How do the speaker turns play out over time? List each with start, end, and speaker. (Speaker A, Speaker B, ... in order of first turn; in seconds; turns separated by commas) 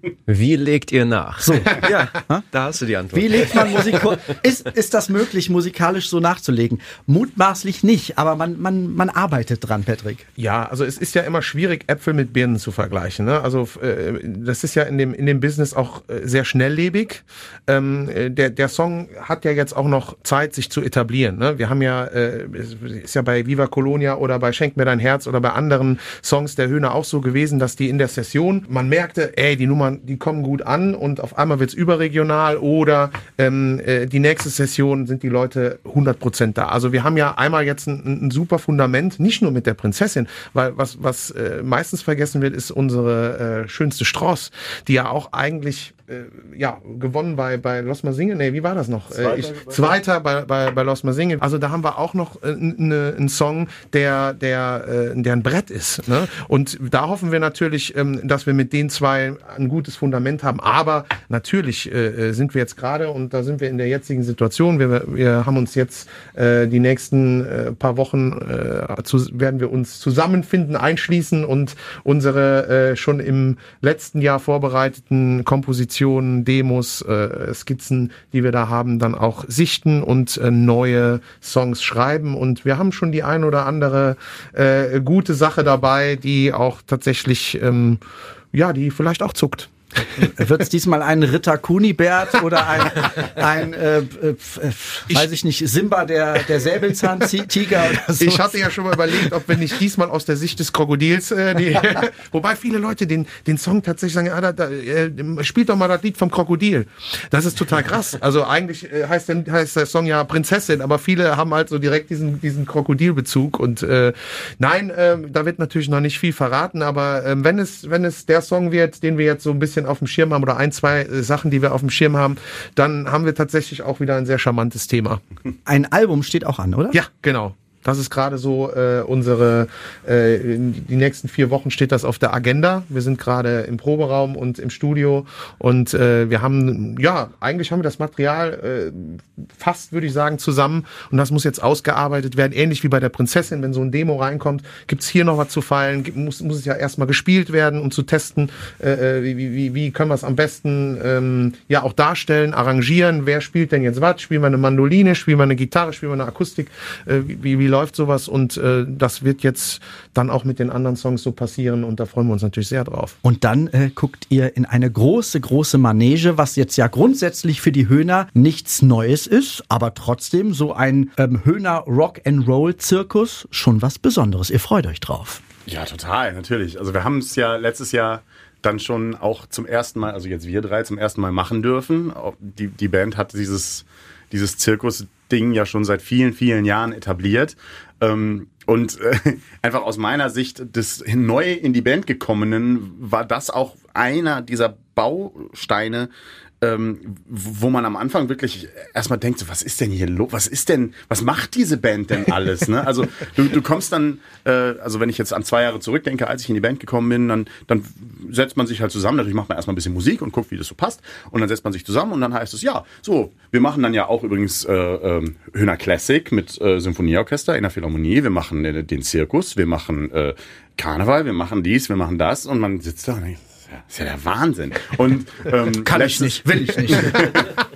Speaker A: 0.3-4.1, Speaker B: 1.4-2.5, Speaker B: 3.1-10.3, Speaker C: 10.4-88.0, Speaker D: 49.1-49.9, Speaker C: 88.5-90.3, Speaker B: 90.2-98.7, Speaker C: 97.9-125.2, Speaker B: 125.7-127.0, Speaker C: 126.9-163.2, Speaker B: 163.2-175.4, Speaker D: 175.7-196.1, Speaker D: 196.6-227.5, Speaker B: 225.8-227.3